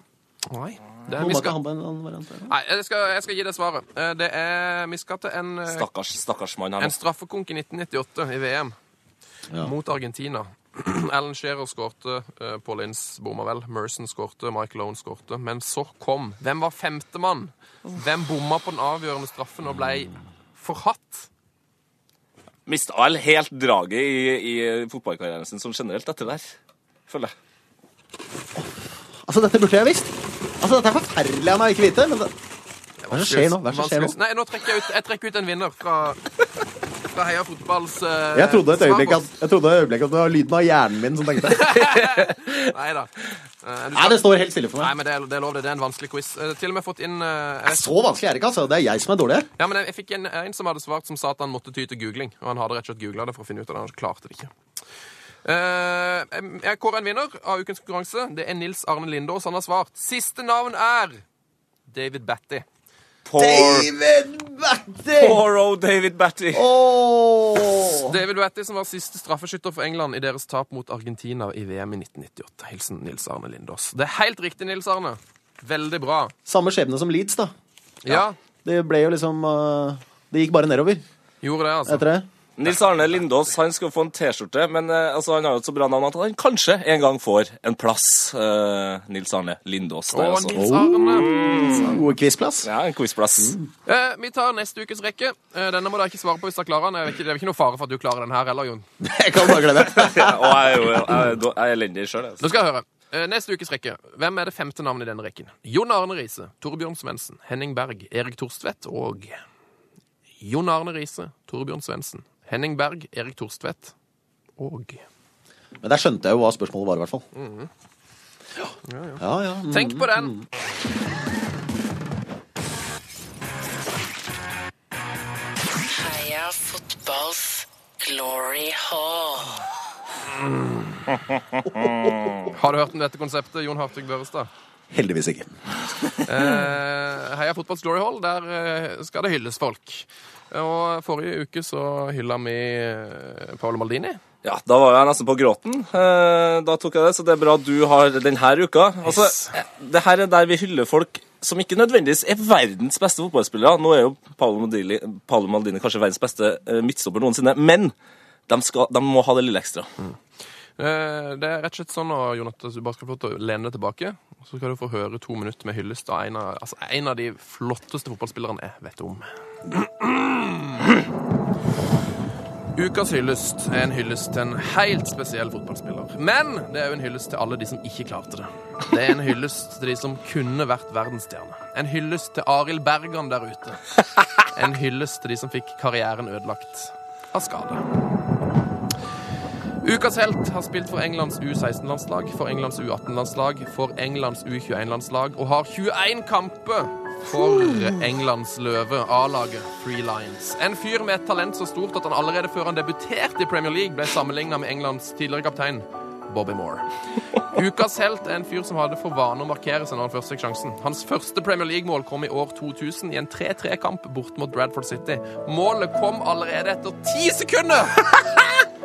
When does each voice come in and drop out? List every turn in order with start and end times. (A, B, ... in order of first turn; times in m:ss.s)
0:00.5-0:01.6 A
0:01.2-0:02.5 B
0:02.5-0:05.9 A
0:05.7-0:07.0 C
0:06.8-0:08.7 A
0:09.6-0:21.3 A
0:22.7-0:26.5 C
0:27.1-0:27.3 C
0:28.5-0:32.3 B
0:33.0-0:36.2 A
0:33.1-0:34.2 B
0:37.1-0:39.3 A
0:38.3-0:42.0 B
0:41.4-0:44.2 A
0:43.9-0:44.9 B
0:44.8-0:47.9 A
0:47.7-0:49.5 B
0:49.6-0:54.5 A
0:55.4-1:01.2 A
1:01.9-1:02.6 A
1:03.3-1:03.9 C
1:03.4-1:05.4 B
1:05.2-1:06.7 C
1:06.5-1:08.2 B
1:08.0-1:16.3 A
1:16.4-1:17.5 B
1:18.0-1:18.4 A
1:18.6-1:21.0 B
1:21.4-1:22.0 A
1:21.9-1:22.3 B
1:22.6-1:32.0 C
1:30.1-1:31.9 A
1:30.5-1:32.7 B
1:32.6-1:33.6 C
1:33.4-1:33.7 B
1:33.9-1:38.9 A
1:39.0-1:41.3 B
1:39.9-1:42.5 C
1:42.4-1:49.4 A
1:50.4-1:53.9 A
1:54.6-1:55.0 A
1:55.8-1:57.2 B
1:57.3-1:57.7 A
1:58.9-2:00.3 A
1:59.2-2:00.4 B
2:06.0-2:07.3 D
2:08.1-2:09.4 D
2:10.4-2:11.0 A
2:12.5-2:14.5 A
2:14.9-2:15.6 B
2:16.3-2:24.2 A
2:24.4-2:37.9 C
2:29.0-2:29.6 A
2:38.5-2:39.9 C
2:40.8-2:51.0 A
2:52.7-3:03.8 A
3:04.4-3:07.8 A
3:09.8-3:26.8 A
3:27.4-3:38.4 A